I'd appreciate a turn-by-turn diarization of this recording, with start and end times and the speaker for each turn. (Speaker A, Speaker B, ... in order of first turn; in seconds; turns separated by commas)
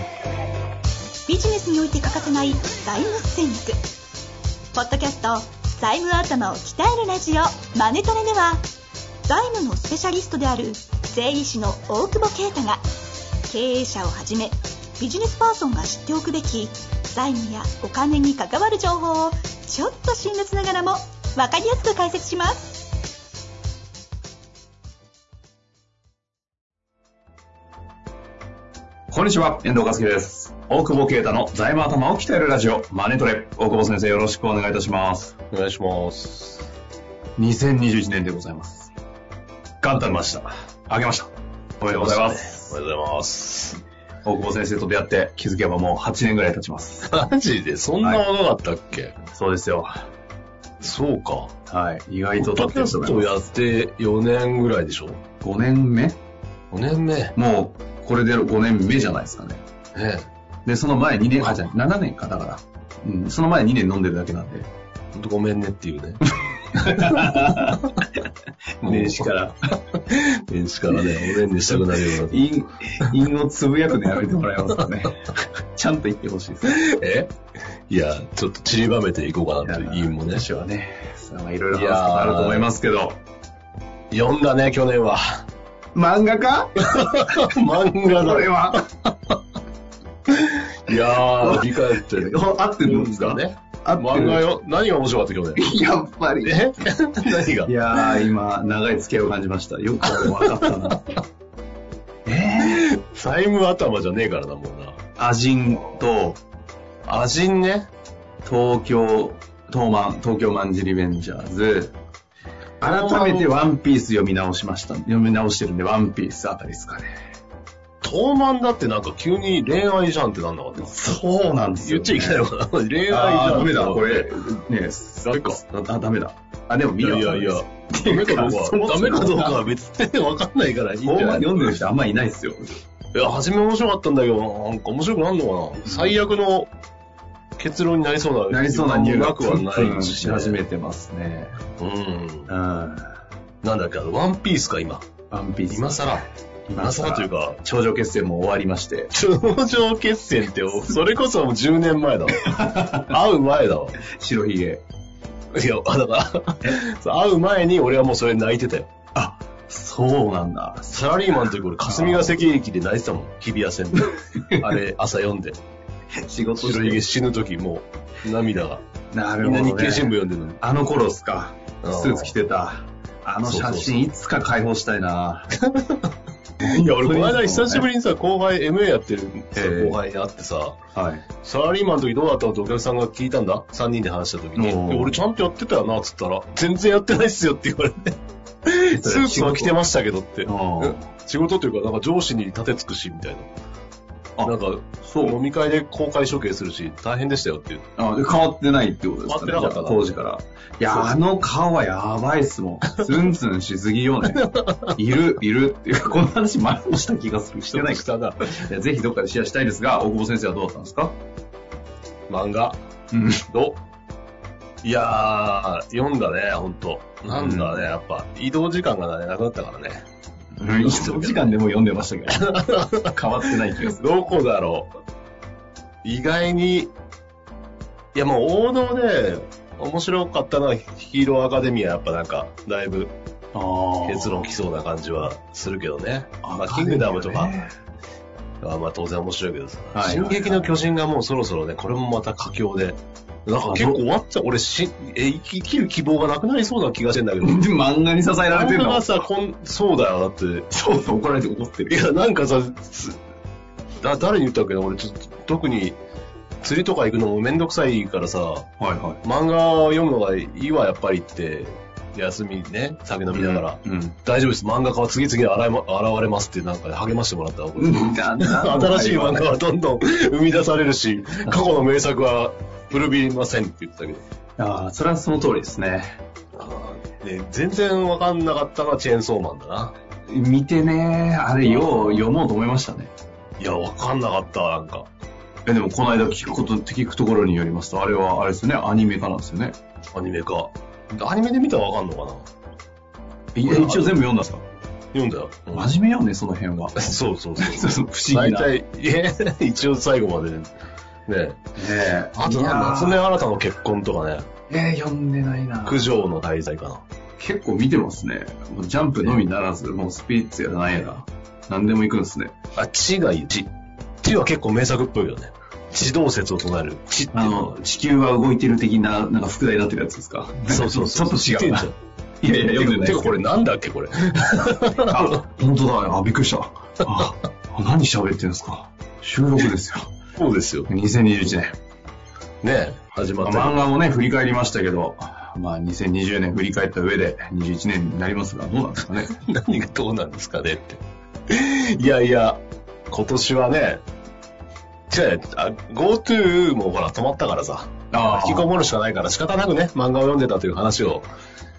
Speaker A: 1.3-3.8, Speaker A: 4.7-8.7, Speaker A: 9.3-12.8, Speaker A: 13.5-22.9, Speaker B: 29.1-35.3, Speaker C: 35.5-36.6, Speaker B: 37.4-38.9, Speaker B: 39.8-42.7, Speaker C: 41.9-43.8, Speaker B: 44.2-47.1, Speaker C: 47.1-49.1, Speaker B: 49.3-50.0, Speaker C: 50.8-51.5, Speaker B: 51.7-53.3, Speaker C: 52.4-55.2, Speaker B: 55.4-56.2, Speaker C: 56.7-57.4, Speaker B: 57.4-59.6, Speaker C: 59.9-60.3, Speaker B: 60.7-64.7, Speaker C: 65.1-66.8, Speaker B: 66.3-68.1, Speaker B: 68.8-69.5, Speaker C: 68.8-69.3, Speaker C: 70.0-72.4, Speaker B: 71.7-76.8, Speaker C: 76.7-77.3, Speaker C: 77.9-80.5, Speaker B: 79.6-83.2, Speaker C: 81.7-82.7, Speaker C: 84.1-85.4, Speaker B: 86.0-87.5, Speaker C: 86.9-89.1, Speaker B: 88.1-88.9, Speaker C: 90.3-95.6, Speaker B: 91.4-94.4, Speaker B: 95.6-96.7, Speaker C: 96.4-98.3, Speaker B: 97.6-101.0, Speaker C: 100.1-100.6, Speaker B: 102.3-102.9, Speaker C: 102.6-105.0, Speaker B: 105.2-106.4, Speaker C: 107.1-107.9, Speaker B: 108.5-112.0, Speaker B: 112.8-117.1, Speaker C: 112.8-113.5, Speaker C: 118.0-120.9, Speaker B: 120.8-122.5, Speaker C: 121.8-124.3, Speaker B: 123.1-129.6, Speaker C: 125.2-125.6, Speaker C: 127.0-131.8, Speaker B: 131.0-132.8, Speaker C: 133.1-136.7, Speaker B: 135.8-136.2, Speaker C: 137.6-140.6, Speaker B: 138.5-141.6, Speaker C: 141.8-142.5, Speaker B: 142.5-143.1, Speaker C: 143.6-145.1, Speaker B: 145.3-149.1, Speaker C: 145.7-147.6, Speaker C: 149.1-152.4, Speaker B: 152.4-153.1, Speaker C: 153.1-154.0, Speaker B: 154.1-154.8, Speaker C: 155.5-158.9, Speaker B: 159.2-162.4, Speaker C: 160.9-165.6, Speaker B: 166.2-167.0, Speaker C: 166.6-168.8, Speaker B: 169.1-175.5, Speaker C: 169.4-170.6, Speaker C: 171.8-172.3, Speaker C: 173.4-174.1, Speaker C: 175.6-176.1, Speaker C: 176.6-180.8, Speaker B: 176.6-177.9, Speaker B: 179.6-180.0, Speaker B: 180.9-181.3, Speaker C: 181.4-193.5, Speaker B: 184.6-185.2, Speaker B: 188.9-189.8, Speaker B: 190.4-191.1, Speaker B: 194.4-195.4, Speaker C: 194.4-197.8, Speaker B: 198.0-211.2, Speaker C: 199.3-200.2, Speaker C: 204.3-204.9, Speaker C: 207.7-208.4, Speaker C: 212.3-212.8, Speaker B: 213.1-213.4, Speaker C: 213.5-213.8, Speaker C: 214.8-220.1, Speaker B: 217.3-217.9, Speaker B: 220.6-224.0, Speaker C: 220.8-221.6, Speaker C: 222.3-224.9, Speaker C: 226.0-226.9, Speaker C: 228.1-233.1, Speaker B: 233.5-234.6, Speaker C: 234.1-237.6, Speaker B: 236.4-237.7, Speaker C: 238.6-247.7, Speaker B: 239.9-240.8, Speaker B: 243.7-244.0, Speaker B: 247.4-249.1, Speaker C: 248.5-250.7, Speaker B: 250.7-252.0, Speaker C: 251.9-253.2, Speaker C: 254.0-256.0, Speaker C: 256.6-258.7, Speaker B: 258.8-259.2, Speaker C: 259.2-274.2, Speaker B: 263.3-264.2, Speaker B: 267.8-269.5, Speaker B: 271.5-271.8, Speaker B: 274.6-276.2, Speaker C: 276.6-279.9, Speaker B: 280.3-283.1, Speaker C: 281.6-282.3, Speaker C: 283.6-285.1, Speaker B: 285.7-289.8, Speaker C: 290.1-292.4, Speaker B: 293.6-294.6, Speaker C: 293.6-294.2, Speaker C: 295.1-295.9, Speaker B: 295.7-297.0, Speaker C: 297.0-300.7, Speaker B: 297.6-298.7, Speaker C: 301.3-301.6, Speaker B: 301.8-303.2, Speaker C: 302.4-304.5, Speaker B: 304.7-306.1, Speaker C: 305.9-307.0, Speaker B: 307.4-312.5, Speaker C: 312.8-313.7, Speaker C: 314.2-317.8, Speaker B: 317.3-321.9, Speaker C: 320.7-321.9, Speaker B: 322.4-323.4, Speaker C: 322.7-325.3, Speaker B: 325.0-330.1, Speaker C: 330.4-330.9, Speaker B: 330.9-331.8, Speaker C: 332.6-333.9, Speaker B: 333.4-339.4, Speaker C: 339.3-344.0, Speaker C: 345.1-351.3, Speaker B: 348.1-348.7